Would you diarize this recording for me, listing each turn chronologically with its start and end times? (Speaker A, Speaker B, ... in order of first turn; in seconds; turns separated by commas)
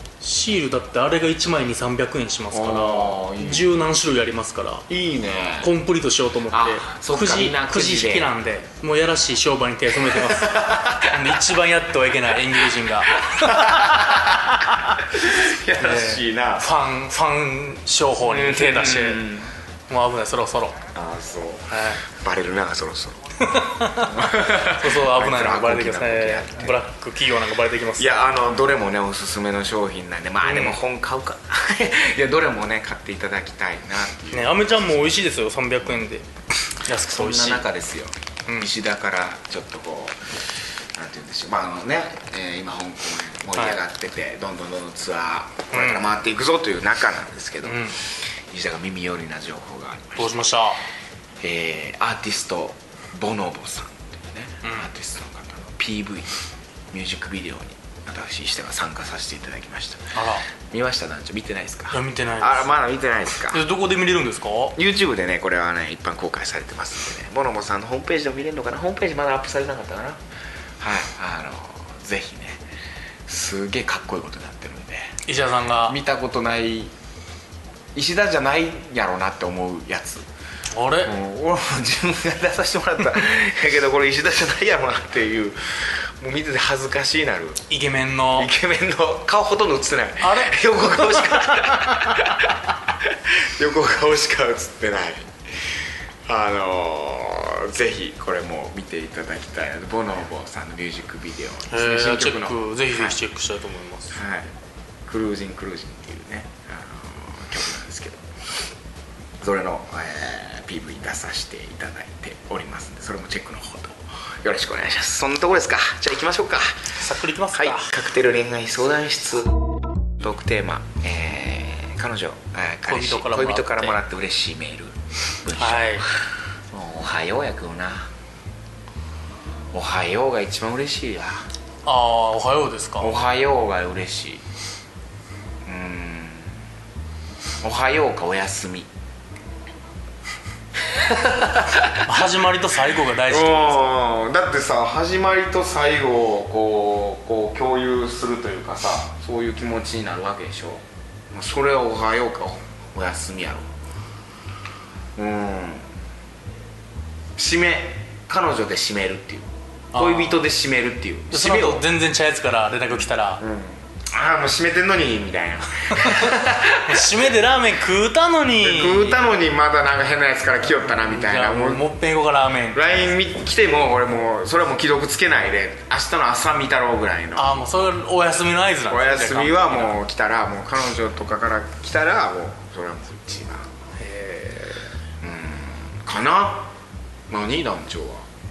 Speaker A: 0.2-4.9, Speaker B: 2.5-3.7, Speaker B: 4.9-5.7, Speaker A: 5.6-15.0, Speaker B: 6.5-8.3, Speaker B: 10.1-11.2, Speaker B: 13.2-14.6, Speaker B: 15.1-16.7, Speaker A: 15.8-19.2, Speaker B: 18.2-19.5, Speaker A: 19.9-20.8, Speaker B: 20.9-23.2, Speaker A: 21.7-22.0, Speaker A: 23.4-28.3, Speaker B: 23.9-26.8, Speaker B: 28.0-34.7, Speaker A: 30.4-30.8, Speaker A: 34.3-37.6, Speaker B: 37.0-50.6, Speaker A: 43.5-43.8, Speaker A: 45.7-46.1, Speaker A: 47.6-48.0, Speaker A: 50.2-50.8, Speaker B: 51.4-56.4, Speaker A: 54.6-54.9, Speaker B: 56.9-60.2, Speaker A: 60.1-60.4, Speaker B: 60.7-63.6, Speaker A: 61.9-62.8, Speaker A: 63.5-64.8, Speaker B: 64.8-70.2, Speaker B: 70.8-72.6, Speaker B: 73.3-75.2, Speaker A: 75.2-76.0, Speaker B: 75.8-76.9, Speaker B: 77.9-80.2, Speaker A: 80.7-81.1, Speaker B: 81.0-87.6, Speaker A: 87.7-88.5, Speaker B: 88.3-95.7, Speaker A: 90.2-92.3, Speaker B: 96.3-103.2, Speaker A: 101.7-104.2, Speaker B: 104.1-104.5, Speaker B: 105.1-108.3, Speaker B: 109.4-117.0, Speaker A: 117.0-118.0, Speaker B: 117.5-119.6, Speaker B: 120.2-128.1, Speaker A: 122.9-124.0, Speaker A: 125.6-126.1, Speaker B: 129.7-131.4, Speaker A: 131.8-133.1, Speaker B: 133.0-134.4, Speaker B: 135.7-136.6, Speaker B: 137.6-138.9, Speaker B: 140.9-142.1, Speaker A: 142.0-143.8, Speaker B: 143.3-153.7, Speaker B: 155.2-155.9, Speaker B: 157.4-161.8, Speaker A: 159.9-160.5, Speaker A: 161.3-163.4, Speaker B: 163.4-167.1, Speaker A: 165.9-169.2, Speaker B: 168.6-171.8, Speaker A: 170.8-173.0, Speaker B: 172.7-177.8, Speaker A: 177.3-180.0, Speaker B: 178.9-183.7, Speaker A: 184.0-184.8, Speaker B: 185.2-186.7, Speaker B: 187.3-188.2